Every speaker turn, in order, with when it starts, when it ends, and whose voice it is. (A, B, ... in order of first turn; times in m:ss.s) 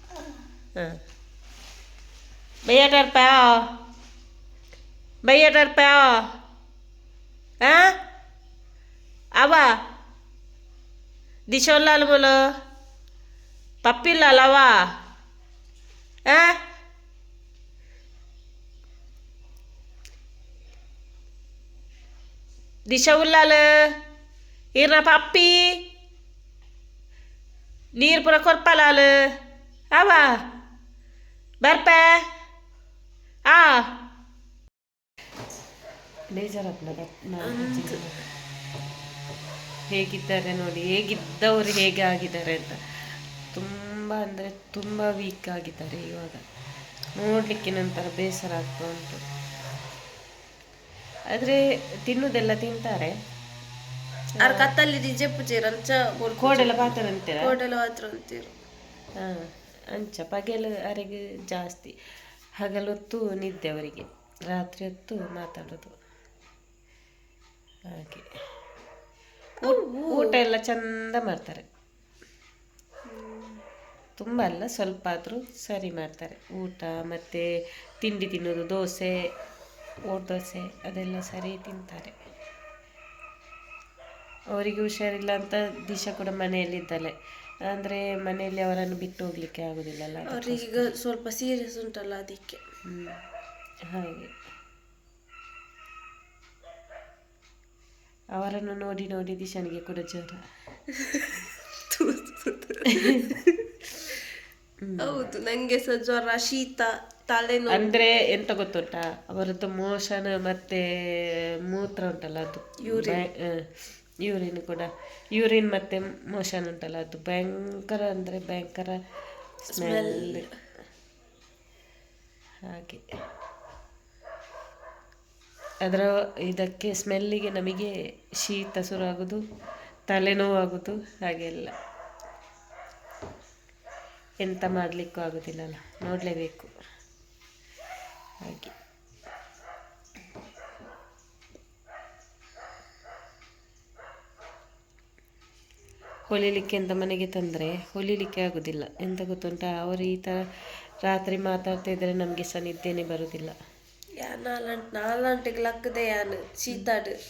0:02.6-0:03.7 A
0:05.2-0:06.2 A
0:07.6-0:07.9 A
0:09.4-0:09.7 A
0:11.5-0:12.4 A
0:13.8-0:14.8 A
0:16.3-0:16.6 A
0:22.9-0:23.6 A
0:24.7-0:25.8 A
0:27.9-0:29.2 A
0:29.9-0:30.4 A
0:31.6-0:32.2 A
0:33.5-0:33.9 A
0:36.3-0:38.2 A
0:37.4-0:38.0 B
0:39.9-0:42.8 A
0:43.5-0:46.4 A
0:47.2-0:49.2 A
0:51.3-0:53.2 A
0:54.4-0:54.7 A
0:54.4-0:58.5 B
0:56.4-0:57.6 A
0:59.2-1:01.9 A
1:02.6-1:05.9 A
1:07.9-1:08.2 A
1:09.6-1:10.4 B
1:09.6-1:11.6 A
1:13.1-1:13.6 B
1:14.2-1:17.4 A
1:18.0-1:19.1 A
1:20.1-1:22.1 A
1:24.5-1:27.1 A
1:27.7-1:30.9 A
1:30.3-1:32.6 B
1:32.8-1:33.2 A
1:33.9-1:34.3 A
1:38.3-1:40.4 A
1:40.9-1:44.3 B
1:42.9-1:43.3 A
1:44.8-1:45.2 A
1:45.0-1:48.0 B
1:47.7-1:53.6 A
1:52.8-1:53.2 B
1:54.2-1:59.0 A
1:59.6-2:00.4 A
1:59.7-2:00.5 B
2:02.6-2:03.0 A
2:05.8-2:09.4 A
2:10.1-2:11.7 A
2:14.4-2:16.7 A
2:18.4-2:18.7 A
2:26.3-2:30.4 A
2:31.0-2:33.5 A
2:34.2-2:37.2 B